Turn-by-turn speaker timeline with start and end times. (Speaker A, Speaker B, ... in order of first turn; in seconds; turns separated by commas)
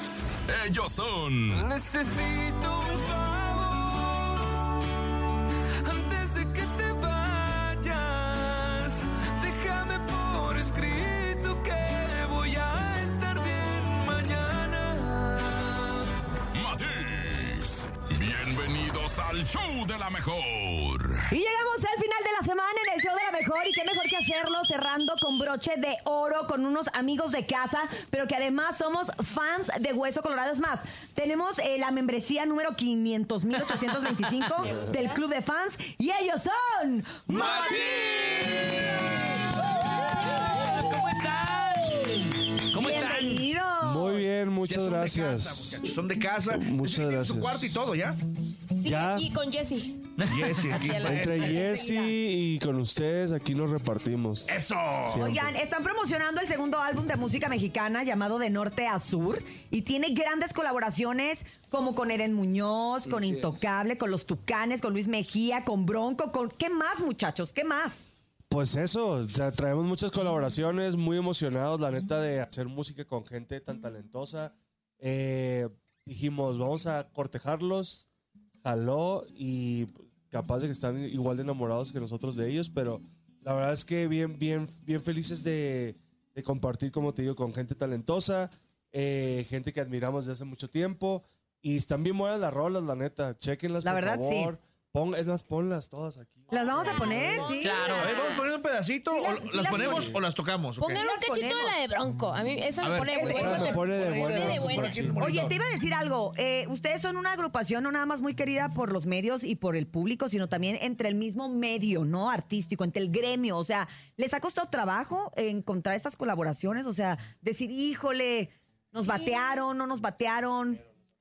Speaker A: 0.5-1.7, Speaker B: 1.6-4.3, Speaker B: 5.8-15.3, Speaker A: 16.5-21.3, Speaker C: 21.3-38.3, Speaker D: 34.5-35.0, Speaker E: 34.6-35.2, Speaker B: 37.3-39.0, Speaker F: 37.8-38.5, Speaker F: 39.9-43.5, Speaker C: 42.7-44.2, Speaker D: 43.8-45.8, Speaker G: 44.6-48.2, Speaker D: 46.5-47.9, Speaker E: 48.8-50.1, Speaker D: 48.8-49.3, Speaker F: 50.2-50.8, Speaker G: 50.2-51.5, Speaker E: 50.8-52.1, Speaker D: 50.9-55.5, Speaker G: 54.5-55.2, Speaker C: 55.1-68.0, Speaker B: 63.0-63.6, Speaker D: 68.5-78.1, Speaker D: 78.6-97.6, Speaker C: 93.8-94.5, Speaker E: 96.5-98.6, Speaker C: 96.5-97.8, Speaker F: 97.6-98.1, Speaker G: 97.8-101.0, Speaker C: 99.0-100.2, Speaker D: 99.6-100.2, Speaker E: 100.8-103.8, Speaker C: 100.9-101.8, Speaker G: 102.8-105.5, Speaker C: 103.1-104.2, Speaker D: 103.2-105.4, Speaker E: 104.3-105.3, Speaker C: 105.2-120.8, Speaker E: 119.0-119.7